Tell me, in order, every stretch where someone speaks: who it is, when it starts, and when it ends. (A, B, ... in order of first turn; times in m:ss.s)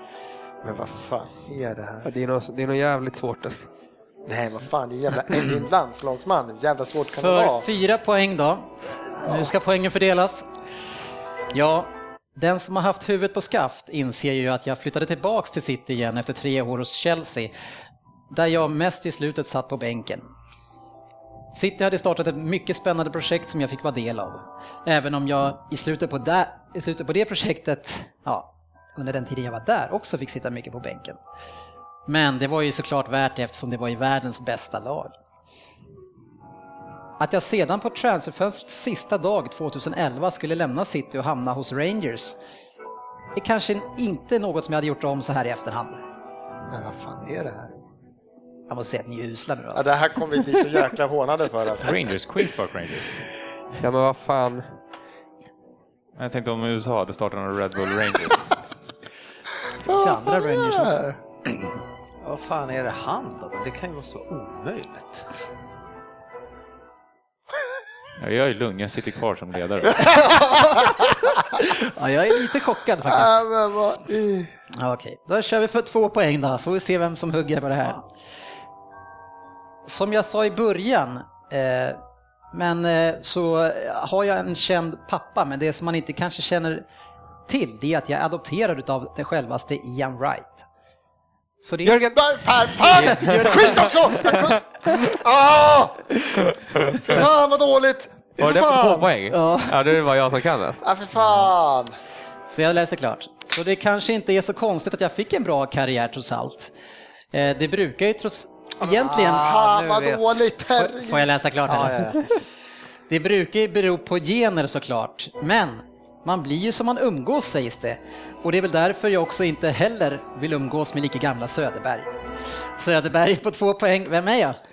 0:00.6-0:02.0 A
0:02.0-0:03.7 B
0:04.2-0:07.6 A
0:07.2-0:10.5 C
0:11.5-0:17.5 C
0:18.3-0:20.3 C
0:21.5-0:31.2 C
0:32.1-0:35.1 C
0:37.2-0:42.4 C
0:43.4-0:46.0 C
0:46.7-0:47.7 A
0:48.7-0:49.9 C
0:49.7-0:52.0 A
0:51.8-0:53.2 D
0:53.8-0:54.7 B
0:56.2-0:58.5 D
0:59.8-1:01.0 C
0:59.8-1:01.2 A
1:02.2-1:05.2 E
1:08.2-1:10.2 D
1:10.3-1:13.4 C
1:10.6-1:11.0 A
1:13.0-1:14.5 A
1:14.8-1:18.0 C
1:19.8-1:22.0 C
1:22.5-1:26.8 C
1:27.5-1:30.6 C
1:31.6-1:32.1 C
1:31.8-1:32.2 B
1:32.1-1:36.2 A
1:32.8-1:34.5 B
1:37.0-1:39.1 A
1:38.4-1:40.8 B
1:39.3-1:39.7 C
1:40.8-1:41.9 A
1:42.5-1:46.7 C
1:47.3-1:49.5 C
1:48.8-1:51.2 A
1:49.1-1:50.2 E
1:51.0-1:52.1 C
1:51.7-1:52.4 E
1:53.1-2:02.1 C
2:02.8-2:04.6 C